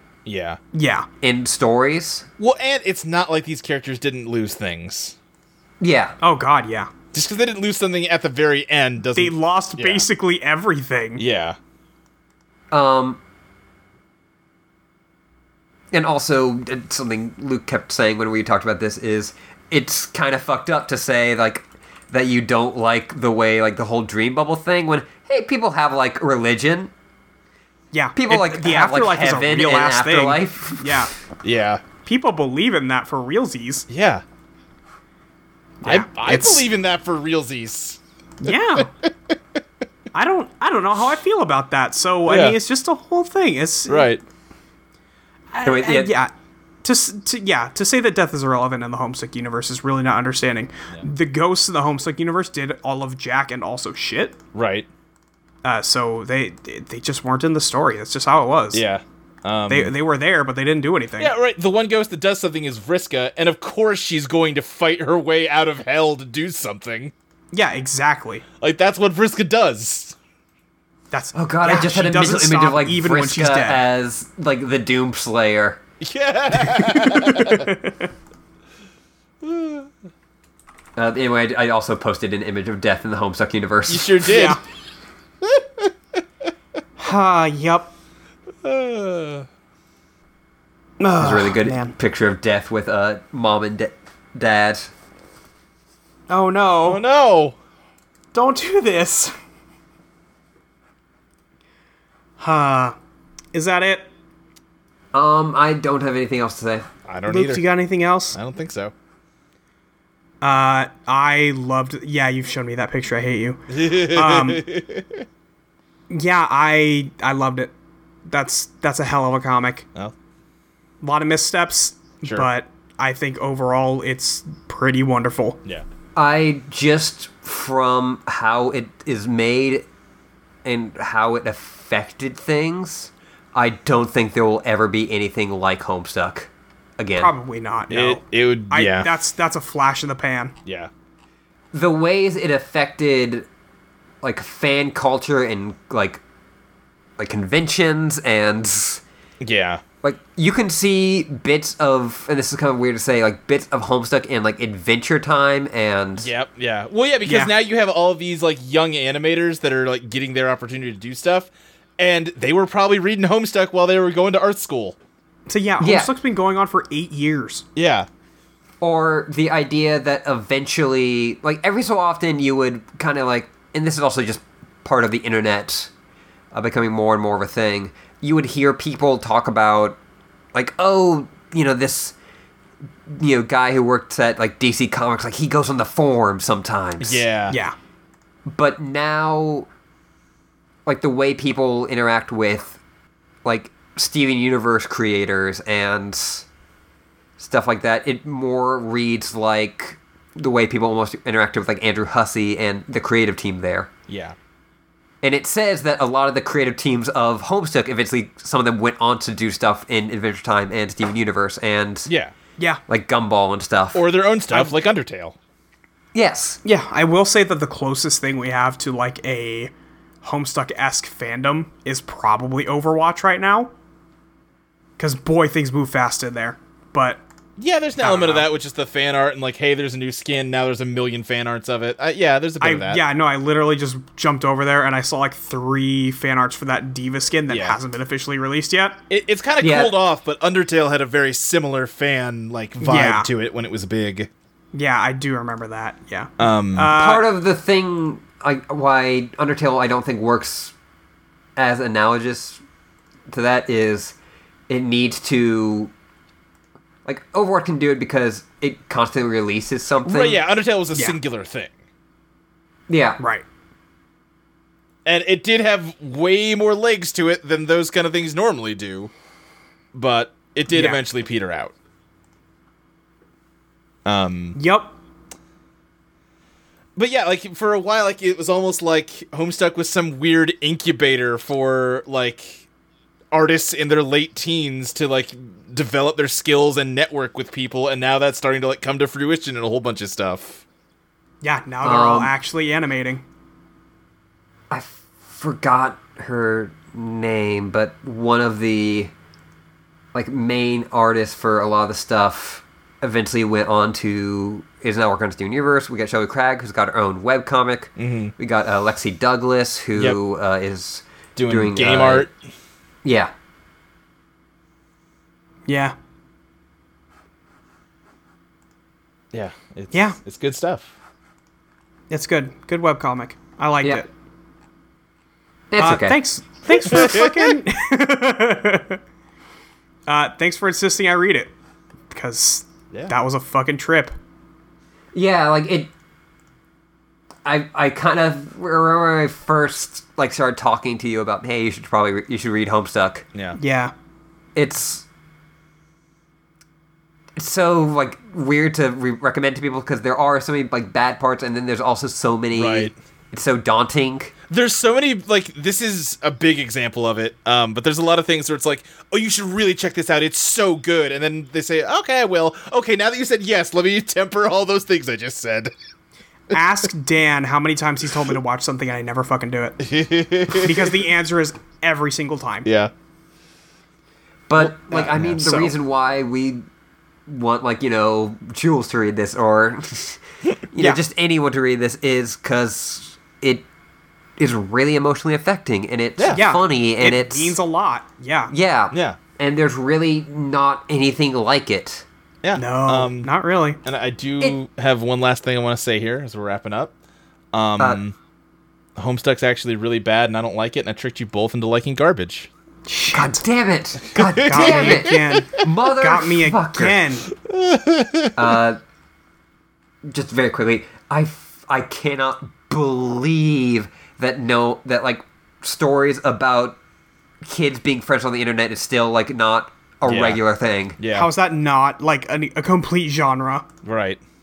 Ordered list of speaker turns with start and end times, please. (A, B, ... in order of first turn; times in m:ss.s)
0:00.3-0:00.6 A
0:00.7-0:01.1 B
0:01.2-0:02.3 C
0:02.4-0:05.2 A
0:05.8-0:06.2 C
0:06.2-0:06.9 B
0:07.1-0:10.1 A
0:09.1-0:11.2 B
0:11.2-0:11.6 A
0:12.7-0:13.2 C
0:15.9-0:26.9 C
0:27.9-0:31.1 B
0:28.2-0:31.0 C
0:31.4-0:31.8 A
0:32.0-0:33.9 B
0:33.9-0:34.2 A
0:35.8-0:36.6 B
0:35.8-0:39.1 A
0:38.4-0:38.9 B
0:40.1-0:44.1 B
0:42.3-0:42.6 A
0:43.9-0:44.2 A
0:45.6-0:46.1 C
0:45.6-0:46.3 B
0:46.8-0:54.4 B
0:54.5-0:54.9 A
0:55.6-0:58.8 B
0:58.7-0:59.9 A
0:59.7-1:01.3 B
1:01.2-1:07.1 A
1:07.5-1:08.4 B
1:08.6-1:10.2 A
1:11.1-1:13.8 B
1:11.3-1:15.8 C
1:16.0-1:17.7 A
1:16.6-1:18.1 B
1:19.4-1:19.9 A
1:21.0-1:24.2 C
1:23.9-1:24.6 A
1:24.2-1:24.6 B
1:25.4-1:25.9 A
1:27.0-1:27.9 B
1:28.6-1:29.5 A
1:31.0-1:32.0 B
1:31.2-1:34.9 C
1:36.3-1:37.0 B
1:36.8-1:37.6 A
1:38.3-1:39.4 B
1:42.4-1:42.9 B
1:43.5-1:44.1 B
1:45.1-1:46.9 C
1:47.1-1:47.6 A
1:47.3-1:48.4 B
1:48.3-1:48.9 A
1:50.4-1:54.6 B
1:53.7-1:55.3 A
1:56.1-1:57.7 B
1:58.3-1:59.9 B
2:01.0-2:05.6 B
2:02.2-2:02.5 A
2:06.2-2:09.9 C
2:10.6-2:17.3 C
2:17.2-2:20.6 B
2:17.9-2:19.1 A
2:20.7-2:20.9 A
2:21.7-2:23.5 C
2:24.2-2:26.2 C
2:27.2-2:29.0 C
2:29.4-2:29.8 A
2:30.0-2:36.3 C
2:36.2-2:45.0 A
2:37.3-2:37.5 B
2:45.5-2:47.7 B
2:45.8-2:46.1 C
2:47.8-2:48.1 A
2:48.8-2:55.9 C
2:56.5-3:00.0 C
3:00.5-3:02.1 C
3:03.1-3:07.2 C
3:07.0-3:07.6 A
3:07.5-3:07.8 B
3:08.5-3:09.7 C
3:10.9-3:12.8 C
3:13.4-3:16.4 C
3:17.4-3:23.9 C
3:24.1-3:24.4 A
3:25.2-3:32.1 C
3:32.1-3:32.3 A
3:32.9-3:34.0 C
3:33.9-3:35.4 A
3:36.1-3:36.6 C
3:36.6-3:39.7 B
3:40.2-3:43.7 B
3:45.0-3:47.2 B
3:47.6-3:53.0 A
3:48.0-3:48.5 B
3:52.6-3:59.0 B
3:57.5-3:57.8 A
3:59.1-4:04.3 A
3:59.6-3:59.9 C
4:02.8-4:03.3 B
4:04.7-4:07.3 B
4:06.4-4:06.9 A
4:06.9-4:10.8 C
4:11.6-4:12.6 C
4:13.3-4:14.2 C
4:14.7-4:15.9 C
4:17.0-4:20.4 C
4:20.0-4:21.8 A
4:20.9-4:21.2 B
4:22.9-4:23.2 C
4:23.2-4:23.4 B
4:25.0-4:29.1 A
4:29.9-4:31.7 A
4:30.7-4:31.0 B
4:34.0-4:34.6 A
4:34.6-4:34.9 B
4:37.0-4:42.6 A
4:43.3-4:50.6 A
4:51.4-4:53.2 B
4:51.8-4:52.3 C
4:54.7-4:59.1 C
5:00.1-5:12.3 C
5:08.0-5:08.3 A
5:11.4-5:12.3 A
5:13.0-5:13.3 C
5:15.7-5:16.0 B
5:19.3-5:20.9 A
5:19.9-5:20.2 B
5:22.1-5:24.1 B
5:25.7-5:26.2 C
5:25.8-5:29.0 B
5:26.8-5:27.6 A
5:30.1-5:31.5 B
5:32.1-5:34.2 B
5:35.1-5:35.9 C
5:37.4-5:43.2 C
5:43.6-5:43.9 B
5:44.6-5:45.0 C
5:47.4-5:54.3 C
5:52.5-5:53.0 A
5:54.5-6:05.7 A
6:06.5-6:09.8 B
6:09.8-6:11.0 A
6:10.5-6:12.7 B
6:12.6-6:12.9 A
6:14.5-6:16.6 C
6:14.6-6:15.4 A
6:15.2-6:15.7 B
6:17.3-6:23.6 C
6:24.4-6:27.6 C
6:26.2-6:26.5 A
6:26.3-6:28.5 B
6:28.5-6:32.0 C
6:28.9-6:29.2 A
6:32.4-6:33.3 A
6:32.6-6:33.8 B
6:33.8-6:36.9 A
6:37.5-6:38.2 A
6:39.0-6:42.5 A
6:42.9-6:43.4 B
6:43.1-6:47.0 C
6:44.1-6:45.3 A
6:44.4-6:47.3 B
6:47.3-6:48.6 A
6:48.4-6:48.8 C
6:50.1-6:56.8 C
6:57.5-7:01.0 C
7:00.1-7:00.4 A
7:01.0-7:01.3 A
7:01.1-7:03.7 B
7:03.8-7:04.2 A